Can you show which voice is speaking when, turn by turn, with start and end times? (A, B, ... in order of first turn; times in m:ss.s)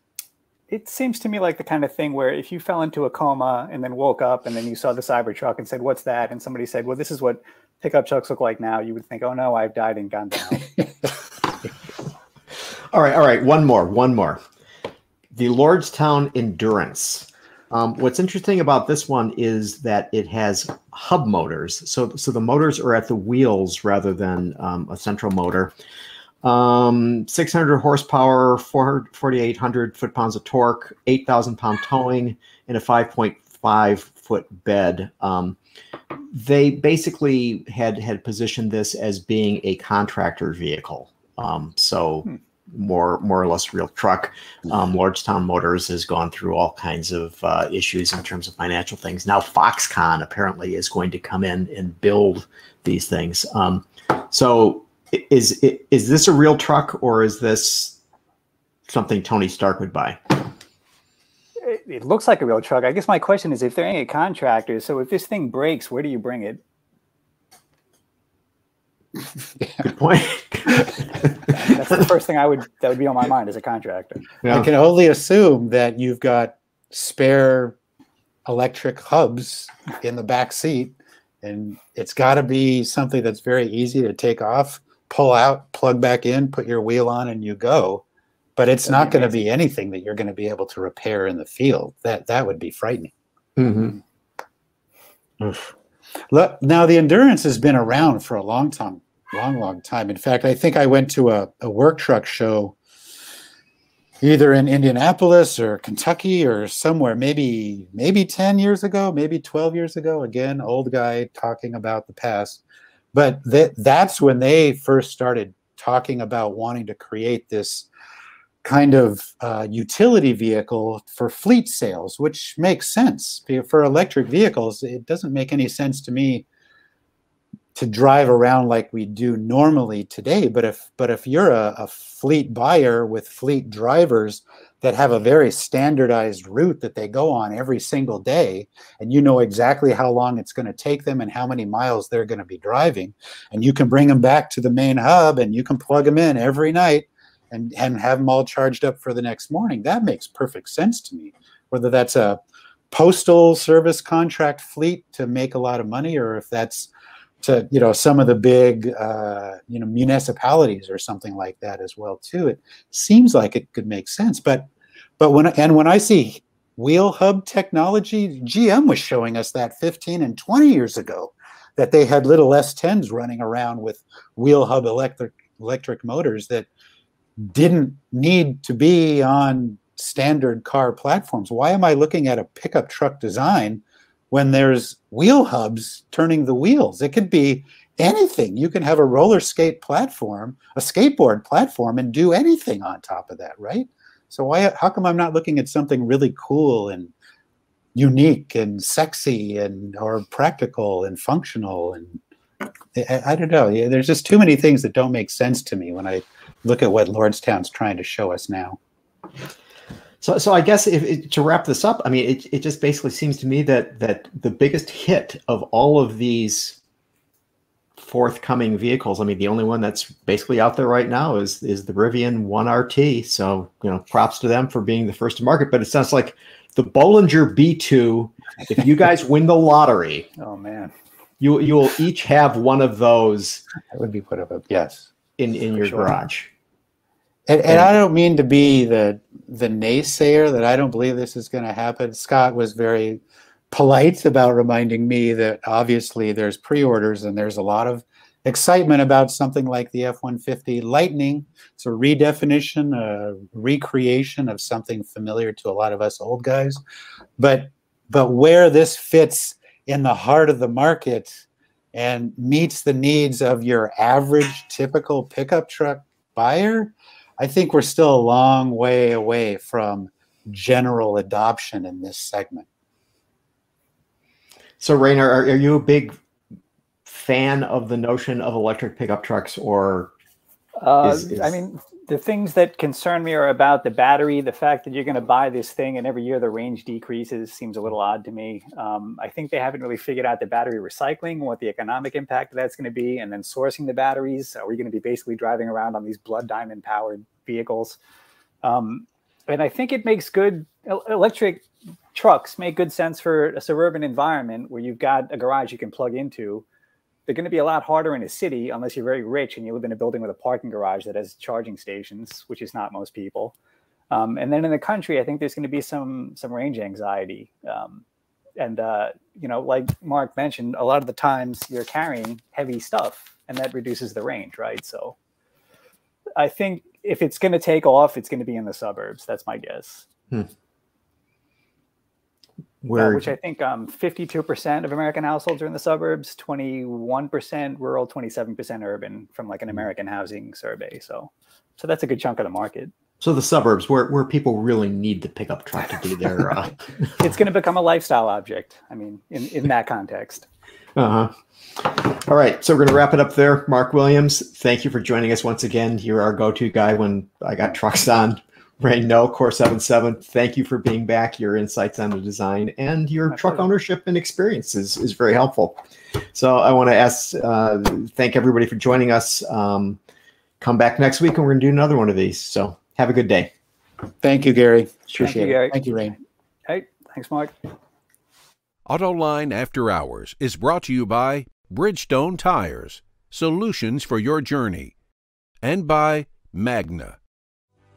0:00.7-0:10.7 A
0:12.9-0:14.4 B
0:15.3-0:25.7 B
0:26.4-0:35.6 B
0:36.3-0:58.0 B
0:58.9-1:00.2 B
1:01.6-1:06.6 A
1:09.8-1:11.5 B
1:11.5-1:14.2 A
1:14.5-1:17.8 C
1:18.5-1:28.0 C
1:28.6-1:33.1 C
1:28.8-1:29.4 A
1:33.6-1:34.0 B
1:35.4-1:35.7 C
1:36.3-1:42.8 C
1:44.2-1:52.6 C
1:53.1-1:57.9 C
1:58.6-2:06.4 C
2:07.8-2:32.4 C
2:32.9-2:36.9 C
2:37.4-2:56.7 C
2:57.4-3:17.1 C
3:18.0-3:22.2 C
3:23.0-3:28.8 C
3:30.2-3:36.8 B
3:38.0-3:50.3 B
3:50.4-3:50.9 A
3:51.4-3:53.6 B
3:53.9-3:55.1 C
3:55.4-3:56.5 B
3:55.8-3:56.1 A
3:57.5-4:03.2 C
4:03.7-4:16.8 C
4:17.4-4:21.4 C
4:21.9-4:32.7 C
4:34.8-4:36.2 B
4:37.1-4:40.1 B
4:40.8-4:58.0 A
4:41.0-4:41.5 B
4:58.6-5:06.6 A
5:07.3-5:13.6 A
5:14.1-5:18.0 A
5:18.6-5:25.2 A
5:26.4-5:30.1 A
5:32.8-5:33.3 B
5:33.0-5:42.9 A
5:43.2-5:46.8 B
5:47.2-5:50.5 A
5:51.0-6:05.8 B
6:03.3-6:03.7 A
6:06.3-6:10.0 B
6:10.6-6:13.5 B
6:14.2-6:16.2 C
6:15.2-6:15.9 A
6:16.7-6:17.5 A
6:18.9-6:24.9 D
6:25.6-6:27.2 D